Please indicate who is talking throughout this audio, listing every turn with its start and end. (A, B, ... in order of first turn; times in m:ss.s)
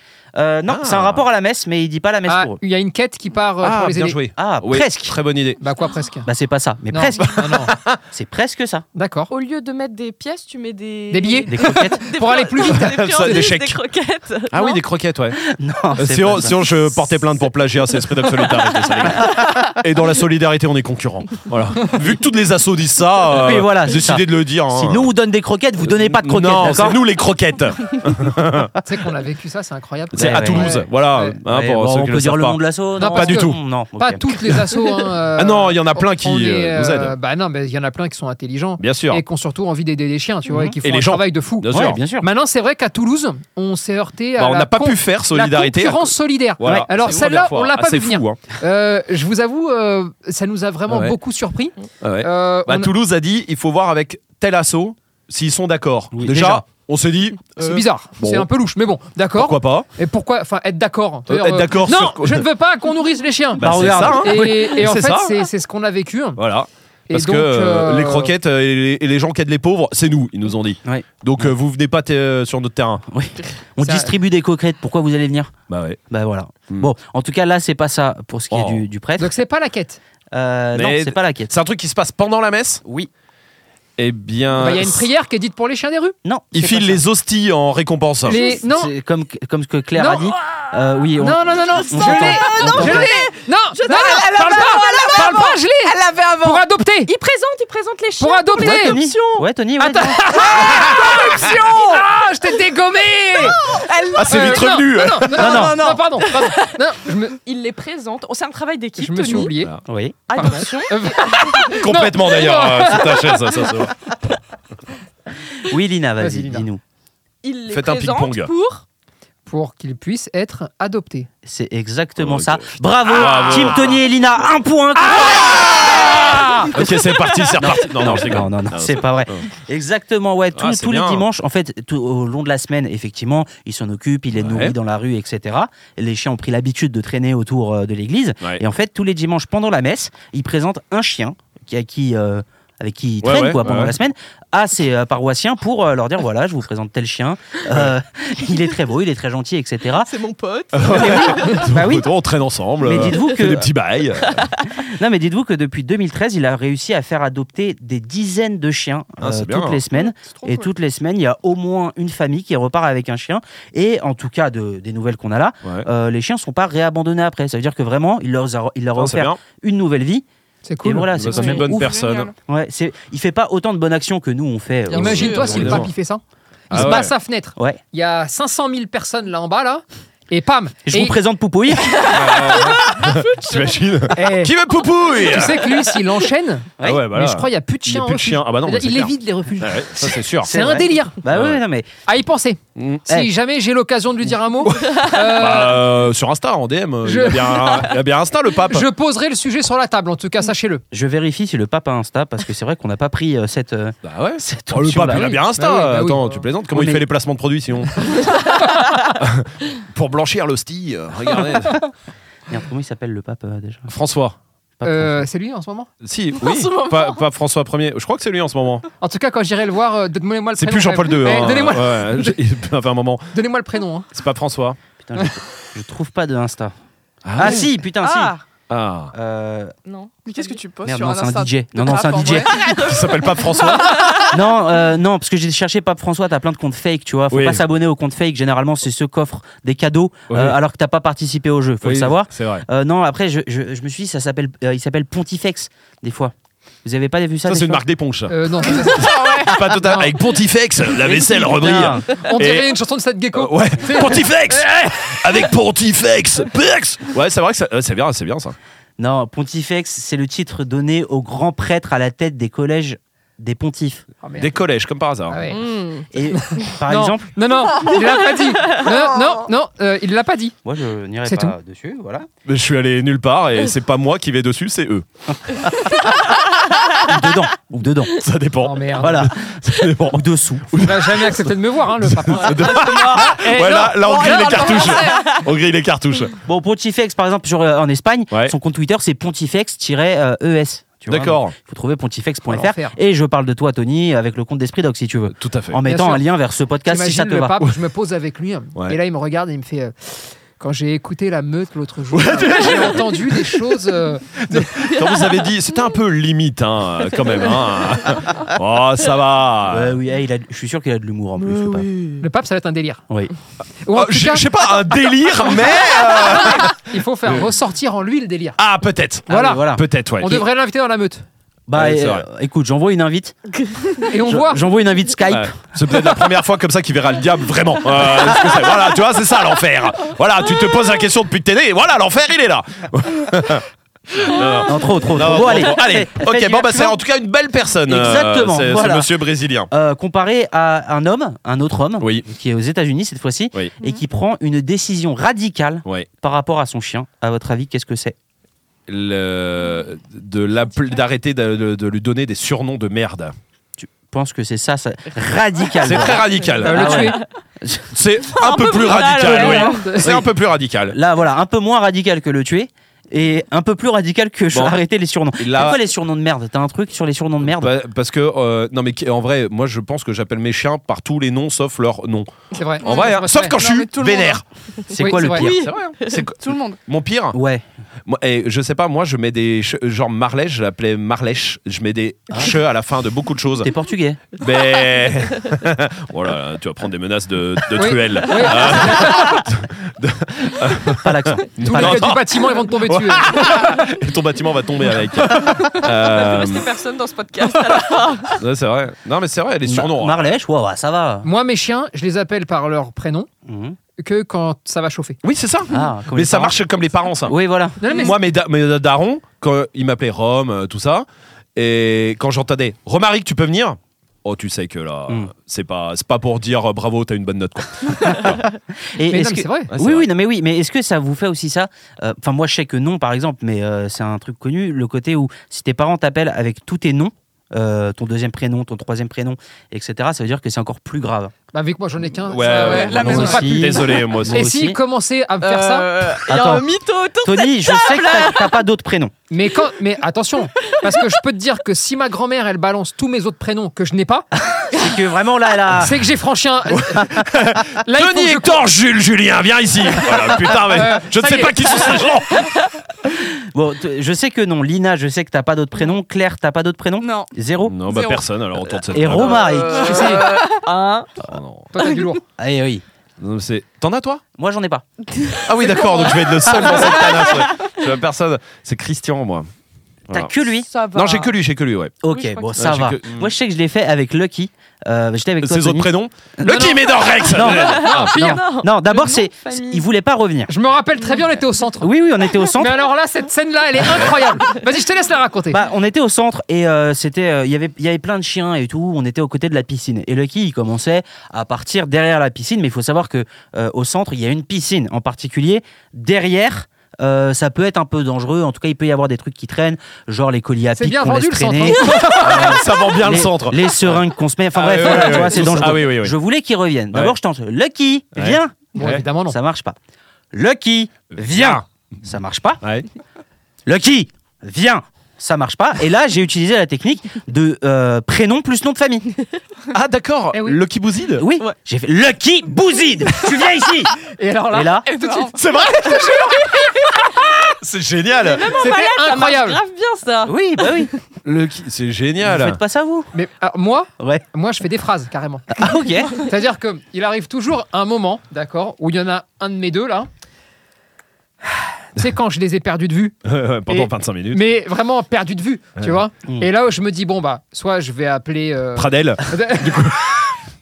0:00.3-0:02.6 A
0:00.7-0:01.2 B
0:02.3-0:04.2 C
0:03.6-0:05.6 B
0:04.4-0:05.2 A
0:05.6-0:06.3 C
0:06.2-0:07.4 A
0:06.9-0:07.7 C
0:07.2-0:08.0 B
0:08.1-0:08.8 A
0:08.9-0:09.3 C
0:09.3-0:14.8 D
0:11.1-0:13.5 C
0:11.5-0:12.0 A
0:12.6-0:13.8 B
0:14.5-0:15.4 B
0:15.4-0:17.0 A
0:16.0-0:25.1 B
0:18.2-0:19.3 D
0:23.3-0:27.0 A
0:25.8-0:28.7 B
0:28.8-0:31.4 C
0:30.1-0:32.6 B
0:30.2-0:30.8 A
0:31.5-0:34.3 A
0:33.0-0:52.9 C
0:33.1-0:33.6 B
0:35.4-0:37.1 B
0:38.8-0:39.2 B
0:40.5-0:40.8 A
0:40.8-0:42.0 B
0:41.7-0:42.3 A
0:44.4-0:48.4 B
0:50.9-0:51.2 B
0:52.0-0:58.5 B
0:56.1-0:56.6 A
0:57.6-1:06.4 C
0:59.3-0:59.9 B
1:01.3-1:02.5 B
1:03.6-1:05.4 B
1:03.6-1:04.7 A
1:06.4-1:13.0 B
1:07.1-1:08.3 C
1:10.8-1:11.5 A
1:13.1-1:15.5 A
1:13.8-1:14.1 C
1:15.7-1:16.0 B
1:16.1-1:19.3 A
1:18.5-1:18.8 B
1:19.2-1:20.0 C
1:20.3-1:21.5 A
1:20.7-1:22.8 B
1:22.8-1:23.1 A
1:24.0-1:25.1 B
1:24.6-1:26.2 C
1:26.2-1:27.0 A
1:26.5-1:28.4 B
1:28.2-1:28.9 C
1:28.4-1:33.1 A
1:30.0-1:30.6 C
1:31.2-1:37.1 C
1:31.9-1:39.4 D
1:32.0-1:33.1 E
1:33.9-1:35.4 E
1:38.2-1:39.0 C
1:38.5-1:40.3 A
1:39.8-1:43.6 C
1:40.3-1:42.0 D
1:40.4-1:42.0 E
1:43.7-1:44.2 E
1:43.7-1:44.2 D
1:44.1-1:45.6 B
1:44.2-1:47.4 C
1:45.4-1:45.8 A
1:45.4-1:46.0 E
1:45.5-1:46.8 D
1:47.3-1:49.5 D
1:49.0-1:49.7 C
1:49.8-1:50.2 A
1:50.3-1:51.8 D
1:50.3-1:53.7 C
1:51.8-1:53.9 B
1:55.6-1:56.8 A
1:56.2-1:56.7 C
1:57.4-1:58.8 D
1:57.7-1:58.5 B
1:59.4-2:01.3 C
2:01.4-2:05.8 A
2:02.2-2:04.0 B
2:05.1-2:06.7 C
2:05.6-2:09.4 B
2:07.6-2:30.1 A
2:10.5-2:11.3 B
2:14.3-2:14.8 B
2:23.2-2:23.9 B
2:27.7-2:27.9 B
2:30.0-2:31.7 D
2:30.7-2:34.5 B
2:30.9-2:32.1 A
2:32.8-2:33.7 A
2:34.2-2:34.6 D
2:34.8-2:50.2 A
2:39.2-2:39.8 B
2:40.0-2:40.7 D
2:49.0-2:49.4 B
2:50.6-2:51.2 C
2:50.8-2:51.9 A
2:51.1-2:52.3 B
2:51.3-2:51.6 D
2:51.5-2:52.3 E
2:52.4-2:55.8 A
2:54.9-2:55.8 D
2:54.9-3:01.2 C
2:55.0-2:55.9 B
2:56.7-2:57.0 A
2:56.7-2:57.1 B
3:00.9-3:02.1 A
3:01.9-3:03.8 D
3:02.1-3:05.8 B
3:04.1-3:04.5 C
3:05.2-3:11.2 C
3:06.8-3:10.5 B
3:10.4-3:11.9 A
3:11.3-3:11.6 B
3:12.0-3:15.8 C
3:12.8-3:13.0 B
3:14.6-3:18.9 B
3:17.0-3:17.9 C
3:18.7-3:20.8 C
3:20.9-3:25.3 A
3:24.0-3:28.2 B
3:25.1-3:26.4 C
3:26.7-3:27.0 A
3:29.2-3:31.8 B
3:32.5-3:33.9 A
3:33.9-3:34.4 B
3:34.8-3:35.3 A
3:34.8-3:35.9 C
3:36.0-3:38.8 B
3:36.4-3:37.2 D
3:39.0-3:42.4 C
3:40.5-3:43.3 B
3:43.3-3:44.1 C
3:44.1-3:44.8 B
3:45.0-3:46.7 A
3:47.2-3:47.7 B
3:47.3-3:48.4 A
3:48.0-3:48.4 D
3:48.7-3:49.1 B
3:49.1-3:49.7 A
3:49.8-3:50.6 D
3:50.2-3:52.7 E
3:50.8-3:52.5 A
3:52.4-3:54.4 D
3:52.5-3:54.1 B
3:54.3-4:06.3 A
3:57.3-3:57.6 B
4:00.3-4:00.6 B
4:01.8-4:02.6 B
4:06.8-4:07.8 A
4:07.4-4:12.7 B
4:08.3-4:09.4 C
4:08.9-4:09.5 E
4:10.9-4:12.1 A
4:12.1-4:14.6 C
4:13.3-4:18.6 B
4:19.0-4:24.0 A
4:24.2-4:24.5 C
4:24.4-4:25.4 B
4:25.3-4:30.5 C
4:25.5-4:26.0 D
4:26.1-4:27.3 A
4:27.9-4:28.9 D
4:30.6-4:32.3 A
4:31.2-4:31.6 C
4:32.4-4:35.0 B
4:37.0-4:38.2 A
4:38.1-4:46.4 B
4:38.6-4:39.2 C
4:39.0-4:40.8 A
4:40.8-4:44.4 C
4:42.8-4:43.2 D
4:44.0-4:45.4 E
4:44.6-4:45.3 D
4:46.4-4:57.6 A
4:51.1-4:51.5 B
4:52.5-4:53.0 C
4:55.3-4:55.8 B
4:55.8-4:56.3 C
4:56.9-5:04.8 C
5:02.1-5:03.8 B
5:04.4-5:10.0 B
5:04.9-5:05.5 D
5:09.7-5:11.9 A
5:11.4-5:12.2 D
5:12.2-5:13.0 C
5:13.8-5:14.5 C
5:13.9-5:17.4 B
5:16.7-5:18.6 C
5:18.6-5:20.4 B
5:19.3-5:19.6 C
5:19.3-5:20.4 A
5:20.2-5:21.2 C
5:21.7-5:23.4 A
5:21.7-5:22.2 B
5:23.7-5:24.1 D
5:24.1-5:24.7 C
5:24.2-5:25.6 A
5:25.3-5:39.7 B
5:34.6-5:37.0 A
5:37.9-5:39.1 A
5:39.7-5:48.2 A
5:42.0-5:42.2 B
5:48.9-5:53.3 B
5:53.8-5:57.9 A
5:55.8-5:57.1 B
5:56.2-5:57.3 D
5:56.6-5:57.2 C
5:57.9-6:01.0 B
5:58.4-5:59.9 D
5:59.2-6:00.1 C
6:00.0-6:00.3 A
6:00.9-6:07.7 A
6:04.5-6:04.8 B
6:05.4-6:05.8 B
6:07.4-6:14.4 B
6:12.5-6:13.6 C
6:12.8-6:14.4 E
6:14.9-6:15.6 A
6:15.0-6:15.5 C
6:15.2-6:16.2 D
6:15.4-6:17.4 B
6:16.4-6:16.8 E
6:17.3-6:17.6 A
6:18.1-6:23.7 B
6:23.6-6:24.2 A
6:24.4-6:36.7 B
6:24.8-6:25.4 D
6:27.7-6:29.4 C
6:28.5-6:29.4 D
6:31.0-6:32.1 A
6:31.6-6:33.8 C
6:35.3-6:38.4 D
6:38.4-6:40.4 B
6:39.6-6:41.3 A
6:41.2-6:43.3 C
6:43.4-6:43.8 A
6:44.0-6:45.2 C
6:45.2-6:58.4 B
6:45.7-6:46.6 A
6:47.2-6:47.8 A
6:47.8-6:48.2 C
6:58.1-6:58.4 A
6:58.9-7:11.3 A
6:59.1-6:59.7 C
6:59.7-7:00.1 B
7:11.5-7:15.9 C
7:12.2-7:14.5 B
7:12.4-7:13.5 E
7:12.7-7:13.0 D
7:12.9-7:14.8 A
7:15.4-7:18.6 D
7:16.2-7:16.7 A
7:17.2-7:19.1 A
7:19.3-7:24.3 C
7:20.6-7:21.1 D
7:24.5-7:26.0 A
7:25.7-7:28.6 C
7:26.7-7:32.6 B
7:30.5-7:32.1 C
7:33.5-7:37.8 A
7:37.0-7:37.3 E
7:37.6-7:39.6 B
7:37.8-7:38.2 E
7:38.9-7:40.1 A
7:39.2-7:41.1 D
7:39.3-7:40.5 E
7:39.8-7:40.2 C
7:41.2-7:41.7 B
7:41.7-7:42.2 C
7:42.4-7:42.8 A
7:43.2-7:44.2 B
7:44.4-7:44.8 A
7:45.2-7:47.7 D
7:45.4-7:49.5 B
7:45.6-7:47.2 E
7:50.1-7:50.7 A
7:50.7-7:51.3 D
7:50.9-7:51.9 B
7:52.0-8:00.5 A
7:52.1-7:52.5 D
7:52.5-7:53.3 B
7:55.4-7:58.2 B
7:56.4-7:56.8 C
7:57.4-7:59.8 D
8:00.5-8:05.6 C
8:01.8-8:02.8 A
8:05.5-8:28.7 A
8:20.7-8:22.6 C
8:22.2-8:26.1 B
8:28.1-8:29.0 B
8:28.7-8:29.4 C
8:29.2-8:29.8 A
8:30.3-8:32.6 A
8:31.1-8:31.6 B
8:33.6-8:39.2 A
8:39.7-8:41.2 B
8:40.3-8:40.6 C
8:41.2-8:44.0 A
8:44.0-8:46.9 C
8:44.5-8:44.9 A
8:44.9-8:45.4 E
8:45.3-8:46.4 B
8:47.6-8:48.5 B
8:48.2-8:51.0 D
8:48.5-8:49.6 C
8:50.2-8:50.9 A
8:51.2-8:52.6 B
8:52.2-8:53.1 A
8:53.1-9:00.1 C
8:55.5-8:56.2 A
9:01.4-9:03.2 C
9:03.2-9:04.4 B
9:03.7-9:09.9 C
9:08.8-9:10.4 B